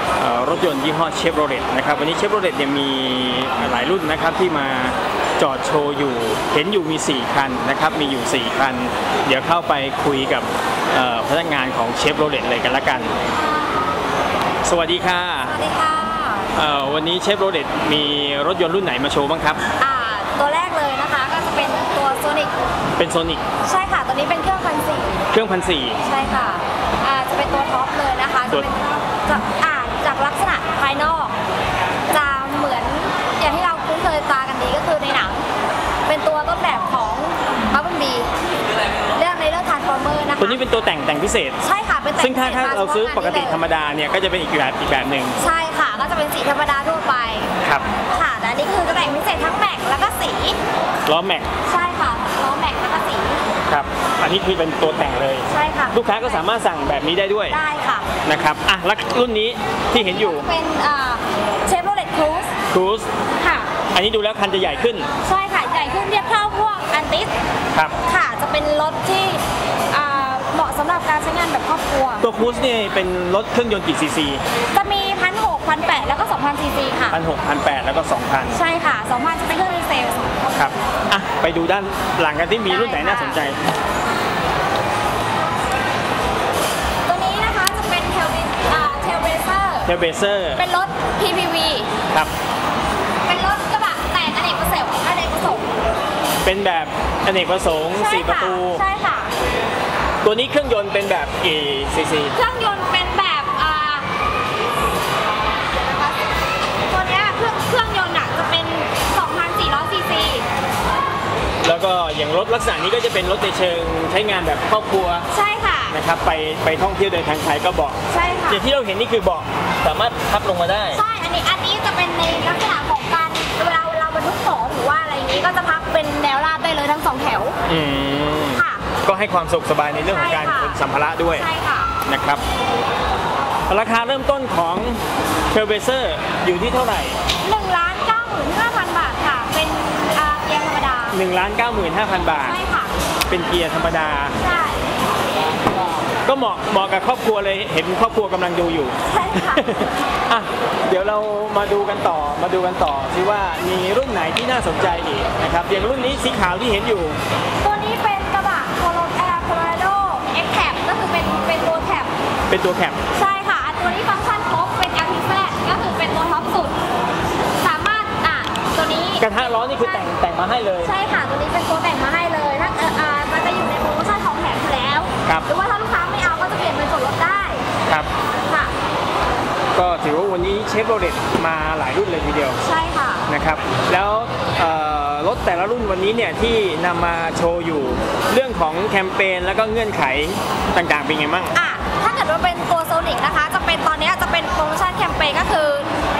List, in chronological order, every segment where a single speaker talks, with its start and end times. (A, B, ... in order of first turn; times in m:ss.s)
0:00.2-0:13.2 A
0:14.6-0:15.6 A
0:15.4-0:16.5 B
0:16.6-0:19.6 A
0:19.8-0:22.5 B
0:23.0-0:23.4 A
0:23.6-0:25.3 B
0:25.3-0:26.0 A
0:26.0-0:31.3 B
0:32.1-0:35.5 B
0:36.1-0:38.3 B
0:39.1-0:40.6 B
0:40.4-0:41.6 A
0:41.6-0:43.6 B
0:42.2-0:45.4 A
0:45.4-0:47.5 B
0:48.1-0:50.6 B
0:51.1-0:51.5 A
0:51.6-0:53.4 B
0:53.7-0:57.6 A
0:55.5-0:56.4 B
0:57.5-0:58.1 B
0:58.2-1:00.5 A
0:59.9-1:02.5 B
1:02.7-1:03.1 A
1:03.4-1:03.7 B
1:03.9-1:05.1 A
1:05.2-1:07.3 B
1:08.0-1:12.3 B
1:12.2-1:14.4 A
1:14.7-1:17.2 B
1:17.1-1:18.6 A
1:18.5-1:20.6 B
1:20.5-1:23.6 A
1:22.7-1:23.4 B
1:27.1-1:29.9 B
1:29.8-1:30.6 A
1:30.6-1:31.9 B
1:33.2-1:35.7 B
1:36.4-1:38.8 A
1:37.9-1:39.3 B
1:40.2-1:42.4 A
1:42.3-1:44.1 B
1:46.9-1:50.5 B
1:51.6-1:55.3 A
1:55.3-1:56.0 B
1:55.9-1:58.0 A
1:58.1-1:58.6 B
1:58.5-2:01.0 A
2:00.9-2:07.6 B
2:07.6-2:11.5 A
2:08.5-2:08.9 B
2:10.1-2:10.8 B
2:11.3-2:11.9 B
2:12.0-2:12.4 A
2:13.7-2:17.2 A
2:17.4-2:21.2 B
2:21.1-2:22.6 A
2:22.3-2:22.9 B
2:23.3-2:24.4 A
2:24.4-2:24.9 B
2:26.2-2:37.2 A
2:29.1-2:29.7 B
2:37.6-2:42.1 B
2:42.5-2:43.0 A
2:43.1-2:46.8 B
2:47.6-2:50.1 B
2:49.2-2:50.9 A
2:50.8-2:57.6 B
2:58.5-2:58.7 B
2:59.8-3:02.6 A
3:02.6-3:03.3 B
3:03.3-3:11.6 A
3:11.5-3:15.9 B